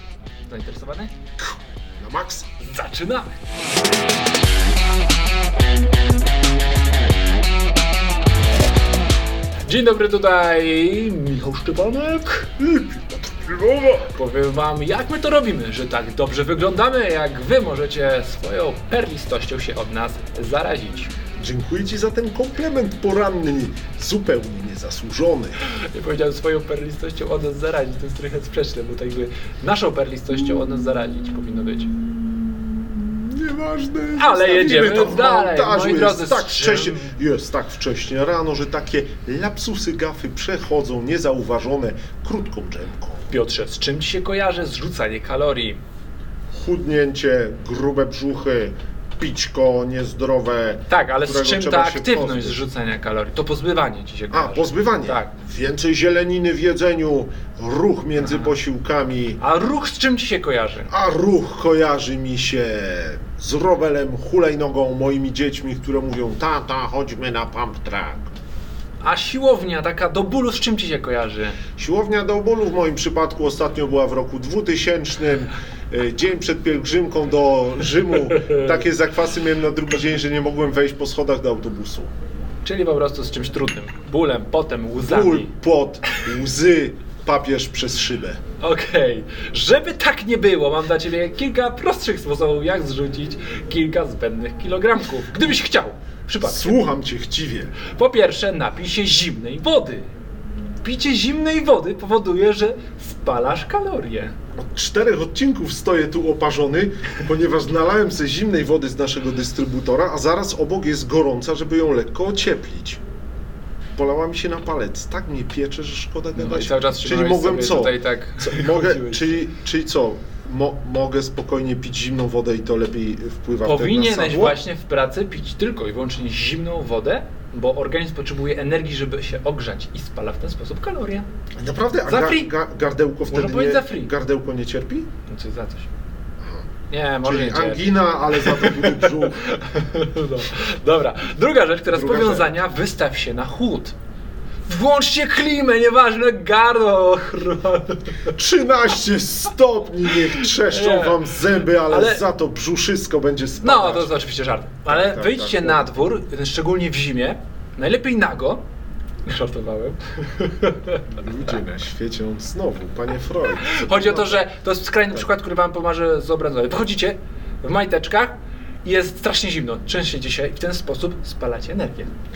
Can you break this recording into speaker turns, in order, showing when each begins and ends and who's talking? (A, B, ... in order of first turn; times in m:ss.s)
0:00.5-0:01.1 A
0:01.4-0:02.5 B
0:02.6-0:03.4 A
0:09.6-0:12.6 A
0:12.6-0:14.1 B
0:14.1-0:21.1 A
0:21.4-0:25.6 B
0:25.6-0:32.0 A
0:32.2-0:43.3 B
0:34.2-0:37.1 A
0:43.3-0:45.8 A
0:46.5-0:52.6 B
0:50.9-0:55.3 A
0:54.3-0:59.4 B
0:59.4-1:00.9 A
1:00.9-1:08.3 B
1:09.0-1:11.6 A
1:11.8-1:22.1 B
1:22.6-1:25.5 A
1:25.0-1:28.4 B
1:28.6-1:36.8 A
1:36.4-1:37.8 B
1:37.8-1:40.1 A
1:40.8-1:44.3 A
1:44.6-1:53.0 B
1:54.0-2:04.6 B
1:56.4-1:59.4 A
2:03.6-2:11.2 A
2:11.6-2:15.1 B
2:12.1-2:12.5 A
2:13.3-2:14.1 A
2:15.2-2:15.9 A
2:16.4-2:16.7 B
2:16.9-2:23.9 A
2:17.2-2:19.6 B
2:21.9-2:22.5 B
2:24.7-2:28.3 A
2:28.3-2:34.2 B
2:30.4-2:32.2 A
2:33.6-2:38.6 A
2:34.8-2:35.9 B
2:39.2-2:41.0 A
2:41.1-2:44.4 B
2:43.6-2:52.1 A